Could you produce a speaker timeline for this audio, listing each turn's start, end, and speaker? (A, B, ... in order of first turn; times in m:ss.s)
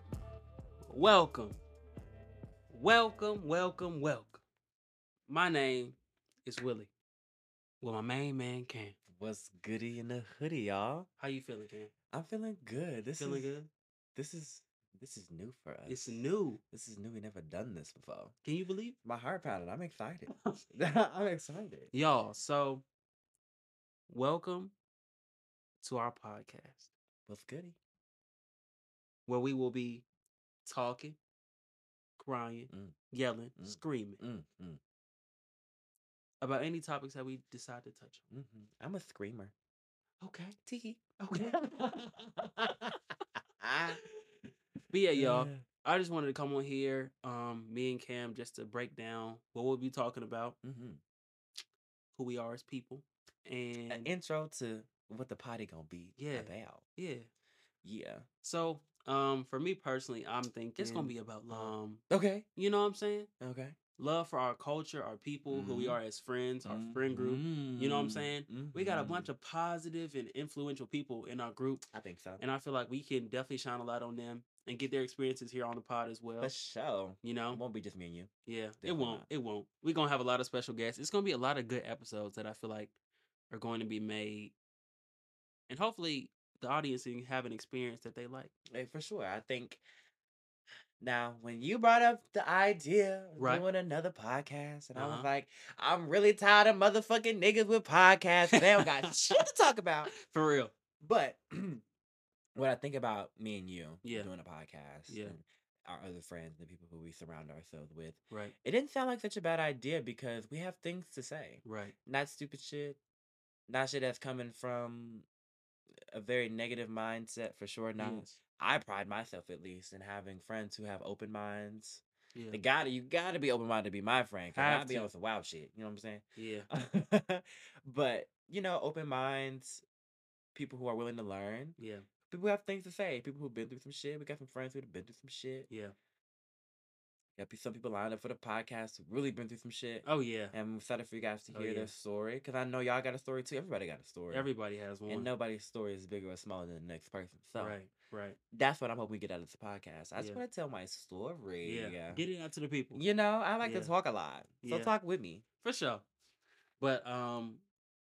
0:00.9-0:01.6 A
0:02.7-0:04.4 A
0:05.3-0:06.9 A
0:07.8-0:09.0 A
0:09.2-0:11.1 B
0:11.2-0:11.9 A
0:12.1-0:13.5 B
0:13.2-0:13.7 A
0:14.2-0:18.3 B
0:15.9-0:16.6 A
0:18.4-0:19.0 A
0:19.0-0:21.9 B
0:21.9-0:22.8 A
0:24.1-0:24.7 A
0:25.8-0:26.9 A
0:27.2-0:27.8 B
0:29.3-0:30.0 A
0:30.6-0:31.2 A
0:32.2-0:34.2 A
0:32.7-0:32.9 B
0:33.6-0:34.8 B
0:36.4-0:38.2 A
0:38.3-0:39.5 B
0:40.4-0:43.0 B
0:41.3-0:41.6 A
0:43.6-0:44.0 B
0:44.9-0:50.6 A
0:45.1-0:45.6 B
0:50.6-0:51.0 B
0:52.1-0:54.1 A
0:53.9-0:56.8 B
0:56.2-0:57.3 A
0:57.8-0:58.2 B
0:58.4-1:02.0 A
1:00.8-1:02.4 B
1:02.5-1:03.3 A
1:03.4-1:03.8 B
1:04.0-1:11.8 A
1:05.5-1:06.0 B
1:06.6-1:09.3 B
1:11.9-1:12.4 B
1:12.4-1:16.5 A
1:16.4-1:18.3 B
1:17.2-1:17.6 A
1:18.4-1:22.9 A
1:18.8-1:19.3 B
1:23.5-1:24.5 A
1:25.7-1:28.5 A
1:28.7-1:29.8 B
1:31.0-1:40.1 B
1:33.4-1:33.6 A
1:34.9-1:35.3 A
1:38.5-1:39.4 A
1:40.1-1:40.7 A
1:41.0-1:41.8 B
1:42.6-1:53.0 B
1:44.0-1:44.3 A
1:45.1-1:45.3 A
1:51.6-1:52.0 A
1:53.7-1:55.2 B
1:56.1-2:09.8 B
1:58.0-1:58.4 A
2:02.3-2:02.6 A
2:04.5-2:05.1 A
2:06.4-2:06.7 A
2:10.5-2:11.8 B
2:11.8-2:12.0 A
2:12.3-2:15.7 B
2:15.7-2:15.9 A
2:17.4-2:24.5 B
2:20.0-2:20.5 A
2:21.5-2:21.9 A
2:24.3-2:25.3 A
2:25.1-2:27.8 B
2:27.6-2:28.4 A
2:28.5-2:32.2 B
2:30.2-2:30.4 A
2:31.6-2:33.0 A
2:32.9-2:35.4 B
2:33.6-2:33.9 A
2:34.6-2:34.9 A
2:35.6-2:36.0 A
2:36.8-2:37.6 A